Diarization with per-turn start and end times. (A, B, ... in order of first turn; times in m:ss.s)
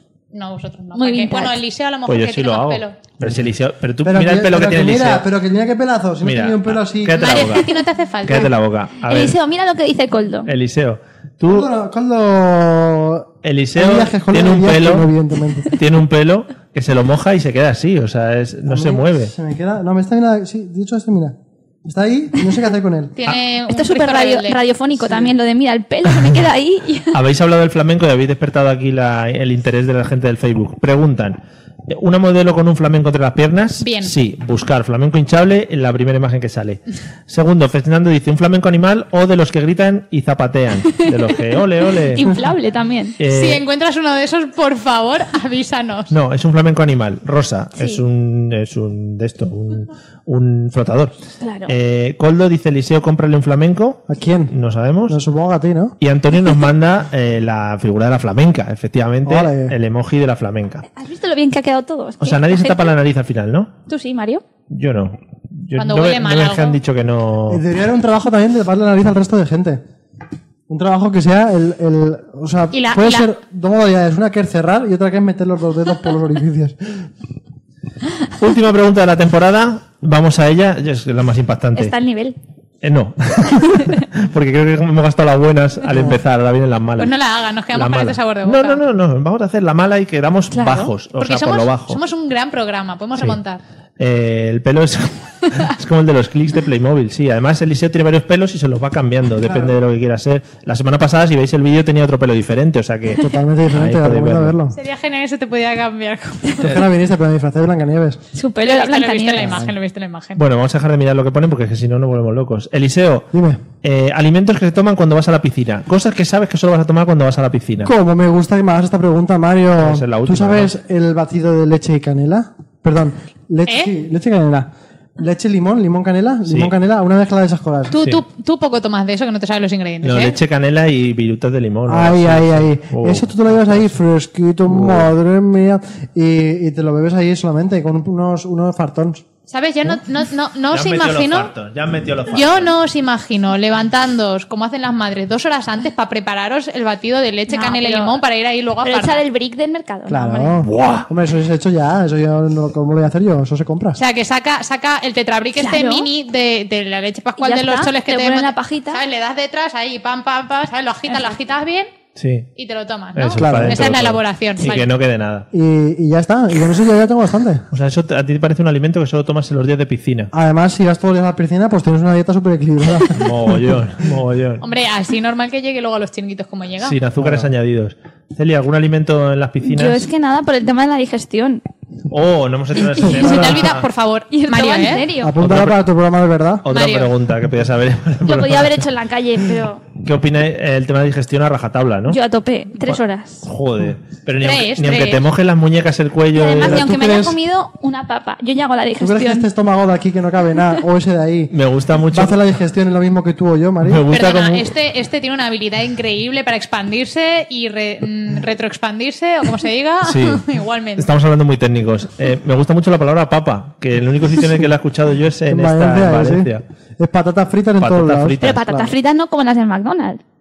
0:00.3-0:03.0 A
0:01.0-0:01.6 B
0:02.1-0:05.3 C
0:04.0-0:07.2 D
0:06.2-0:07.7 C
0:07.2-0:08.5 A
0:08.2-0:09.4 C
0:09.0-0:10.5 B
0:10.4-0:11.7 C
0:11.4-0:15.7 D
0:13.4-0:15.1 C
0:15.7-0:19.3 C
0:18.7-0:23.1 D
0:23.2-0:24.6 A
0:23.7-0:27.2 B
0:27.1-0:42.4 C
0:33.8-0:34.1 A
0:42.1-0:43.2 B
0:43.2-0:43.6 C
0:43.2-0:46.1 A
0:46.1-0:51.2 C
0:51.4-0:51.7 B
0:51.7-0:55.2 C
0:54.1-0:54.6 D
0:55.1-0:56.0 D
0:56.0-1:00.8 C
0:59.2-0:59.8 D
1:00.9-1:02.9 B
1:02.2-1:03.7 C
1:03.9-1:04.4 B
1:04.7-1:07.6 C
1:05.8-1:06.8 A
1:07.5-1:09.8 D
1:10.7-1:17.1 D
1:12.7-1:13.3 A
1:18.4-1:22.0 C
1:21.8-1:22.4 B
1:22.8-1:27.2 C
1:25.9-1:26.2 D
1:27.0-1:28.8 A
1:27.7-1:32.0 C
1:30.5-1:30.9 B
1:31.2-1:33.6 A
1:34.0-1:44.6 C
1:39.4-1:39.8 D
1:43.2-1:44.7 D
1:44.7-1:46.6 A
1:46.6-1:48.2 D
1:48.3-1:49.6 B
1:48.6-1:50.4 A
1:49.4-1:49.7 D
1:50.4-1:53.3 C
1:53.3-1:53.6 D
1:53.8-1:57.9 C
1:57.8-2:08.0 D
1:59.8-2:00.7 C
2:03.7-2:03.9 A
2:06.4-2:06.7 C
2:07.9-2:10.4 A
2:10.0-2:14.0 C
2:11.9-2:19.2 D
2:14.7-2:15.1 C
2:19.5-2:21.5 A
2:20.7-2:22.7 C
2:22.3-2:29.2 A
2:27.5-2:28.2 B
2:28.8-2:30.6 B
2:30.1-2:34.0 D
2:30.6-2:31.1 C
2:34.0-2:41.9 A
2:35.6-2:36.1 B
2:37.4-2:39.0 B
2:42.2-2:42.5 C
2:42.6-2:44.9 A
2:43.2-2:45.5 C
2:43.4-2:44.0 D
2:45.5-2:47.6 D
2:47.7-2:50.3 C
2:50.3-2:53.4 D
2:53.1-2:54.6 C
2:54.6-2:57.0 A
2:56.8-3:00.1 C
2:57.2-2:57.5 D
2:59.6-3:01.6 B
3:02.1-3:03.9 C
3:03.0-3:05.1 A
3:03.3-3:03.5 D
3:04.3-3:05.3 B
3:05.2-3:06.6 D
3:05.4-3:05.8 C
3:06.6-3:08.8 C
3:06.7-3:07.1 A
3:08.3-3:09.8 B
3:10.0-3:12.2 C
3:12.1-3:13.5 B
3:12.8-3:16.9 C
3:14.4-3:15.2 A
3:16.3-3:19.4 B
3:16.6-3:17.4 D
3:19.0-3:21.5 D
3:21.5-3:22.4 C
3:22.1-3:24.1 D
3:23.8-3:24.7 C
3:24.1-3:31.1 A
3:30.0-3:30.4 C
3:31.0-3:36.6 C
3:35.5-3:38.9 D
3:37.8-3:38.6 C
3:38.4-3:40.2 B